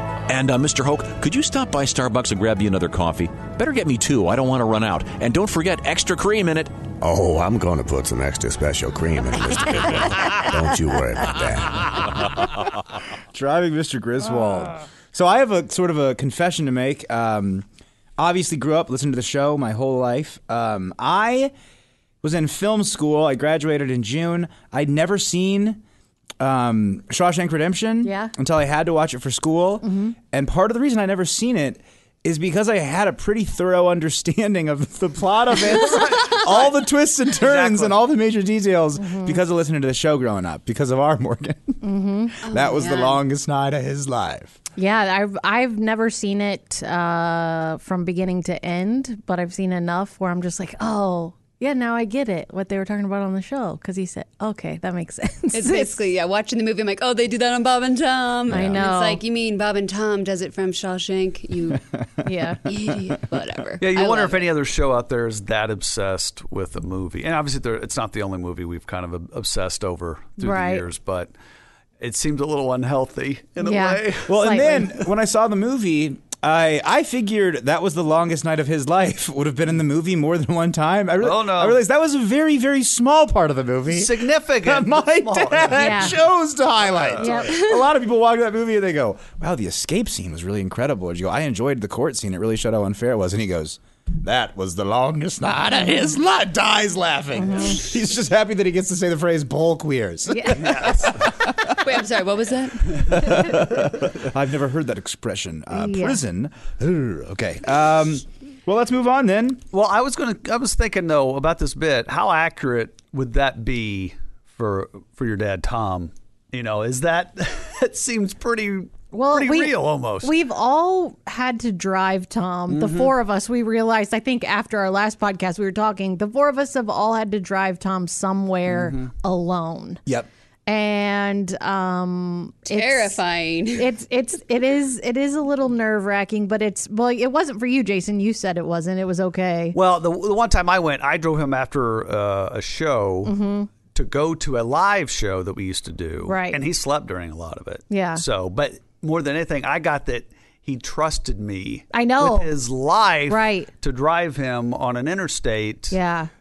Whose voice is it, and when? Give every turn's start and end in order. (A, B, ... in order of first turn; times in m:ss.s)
0:00.3-0:06.7 A
0:07.0-0:12.1 B
0:13.3-0:17.7 C
0:18.2-0:21.5 C
0:22.2-0:25.8 C
0:26.4-0:44.6 C
0:28.0-0:28.3 D
0:29.8-0:30.2 D
0:37.4-0:38.0 E
0:39.0-0:39.4 D
0:41.8-0:42.4 D
0:42.5-0:43.2 F
0:44.8-0:56.0 D
0:55.5-1:01.8 F
0:58.5-0:58.9 C
0:58.6-0:59.2 D
1:01.7-1:02.3 C
1:02.2-1:02.6 D
1:02.7-1:04.5 F
1:03.8-1:11.3 E
1:10.4-1:10.9 D
1:12.0-1:14.6 E
1:13.6-1:14.9 D
1:14.3-1:41.5 C
1:21.2-1:21.8 E
1:23.9-1:26.1 E
1:25.8-1:26.2 D
1:26.8-1:27.5 E
1:27.2-1:27.7 D
1:37.4-1:37.8 D
1:40.3-1:40.6 D
1:40.6-1:41.0 E
1:41.8-1:43.4 F
1:43.1-1:49.6 C
1:45.7-1:46.2 D
1:49.7-2:00.3 E
1:59.1-2:10.0 D
2:02.7-2:03.2 E
2:08.7-2:09.1 E
2:10.7-2:13.2 D
2:12.7-2:13.9 F
2:13.8-2:19.8 D
2:19.7-2:36.0 E
2:23.2-2:23.7 D
2:26.3-2:26.6 D
2:27.9-2:28.2 D
2:31.9-2:32.5 D
2:33.3-2:33.7 D
2:35.9-2:36.3 D